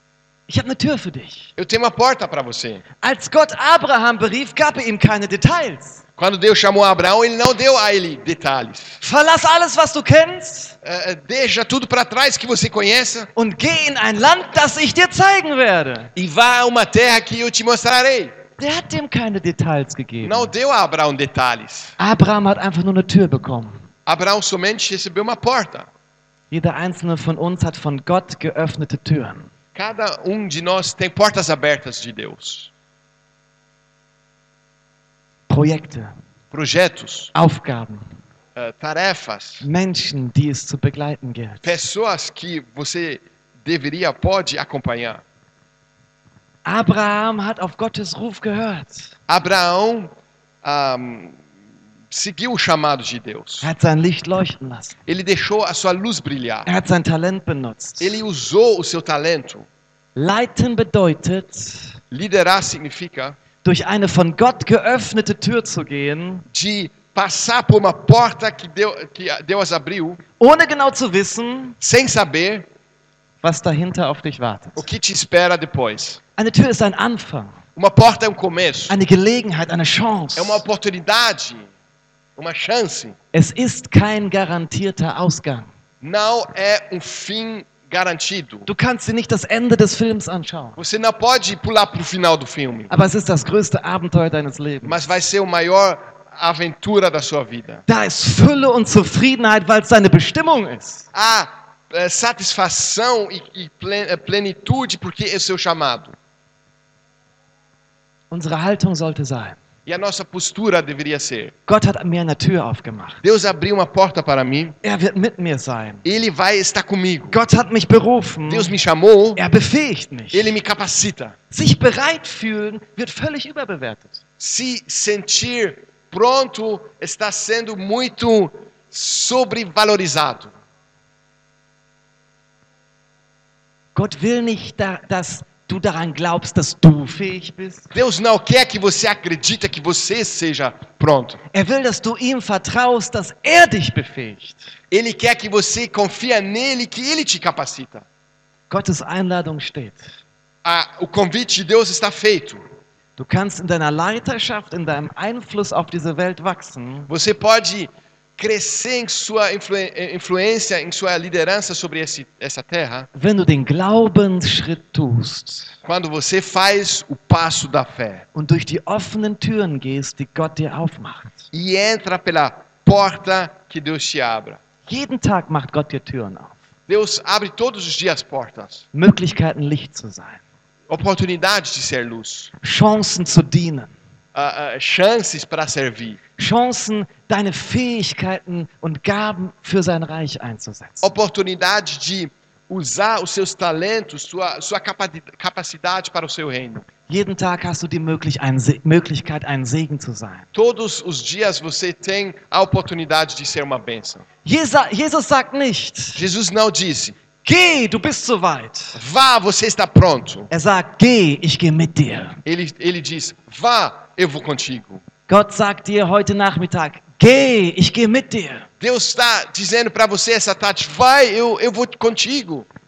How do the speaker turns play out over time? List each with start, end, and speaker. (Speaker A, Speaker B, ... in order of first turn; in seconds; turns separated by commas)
Speaker A: 0.5-1.5, Speaker B: 1.6-2.8, Speaker A: 3.0-6.0, Speaker B: 6.2-9.0, Speaker A: 9.0-10.8, Speaker B: 10.8-13.3, Speaker A: 13.4-16.1, Speaker B: 16.2-18.4, Speaker A: 18.6-20.5, Speaker B: 20.2-21.9, Speaker A: 22.0-23.8, Speaker B: 24.1-25.9, Speaker A: 26.5-29.5, Speaker B: 29.8-32.7, Speaker A: 35.5-36.1, Speaker B: 36.5-37.3, Speaker A: 37.3-38.1, Speaker B: 38.6-39.6, Speaker A: 39.6-41.8, Speaker B: 41.6-45.2, Speaker A: 46.6-49.1, Speaker B: 49.3-51.4, Speaker B: 52.1-53.7, Speaker A: 53.6-55.0, Speaker B: 55.1-56.7, Speaker A: 56.7-58.2, Speaker B: 58.0-59.7, Speaker A: 60.2-62.0, Speaker B: 62.1-63.4, Speaker A: 63.6-66.5, Speaker B: 66.5-70.2, Speaker A: 70.4-71.8, Speaker B: 71.8-72.7, Speaker A: 73.4-74.9, Speaker B: 74.8-76.2, Speaker A: 76.4-77.5, Speaker B: 77.8-78.9, Speaker A: 78.9-80.6, Speaker B: 80.4-81.7, Speaker B: 82.4-83.2, Speaker A: 83.3-85.7, Speaker B: 86.0-88.7, Speaker A: 88.7-90.8, Speaker B: 90.8-92.9, Speaker A: 92.9-95.1, Speaker B: 94.8-97.8, Speaker A: 97.9-101.1, Speaker B: 101.1-106.2, Speaker A: 108.3-109.6, Speaker B: 109.9-111.5, Speaker A: 111.7-113.2, Speaker B: 113.2-114.8, Speaker A: 114.8-116.0, Speaker B: 116.0-117.4, Speaker A: 117.3-118.8, Speaker B: 118.5-119.4, Speaker A: 119.4-120.6, Speaker B: 120.3-121.4, Speaker A: 121.5-124.2, Speaker B: 124.4-130.5, Speaker A: 133.9-137.9, Speaker B: 137.9-141.4, Speaker A: 141.5-144.7, Speaker B: 144.9-148.1, Speaker A: 148.7-150.1, Speaker B: 150.6-152.6, Speaker A: 153.2-157.1, Speaker B: 157.1-163.1, Speaker A: 163.2-165.8, Speaker B: 165.8-168.2, Speaker A: 168.3-171.4, Speaker B: 171.5-174.6, Speaker A: 174.9-176.6, Speaker B: 176.9-178.8, Speaker A: 178.9-180.4, Speaker B: 180.9-182.5, Speaker A: 182.6-183.9, Speaker B: 184.3-186.2, Speaker A: 186.4-191.1, Speaker B: 191.0-196.9, Speaker A: 197.1-200.5, Speaker B: 200.6-204.2, Speaker A: 204.4-206.2, Speaker B: 206.2-207.2, Speaker A: 207.4-209.0, Speaker B: 209.0-210.5, Speaker A: 210.5-212.4, Speaker B: 212.4-215.0, Speaker A: 215.3-218.7, Speaker B: 218.8-222.7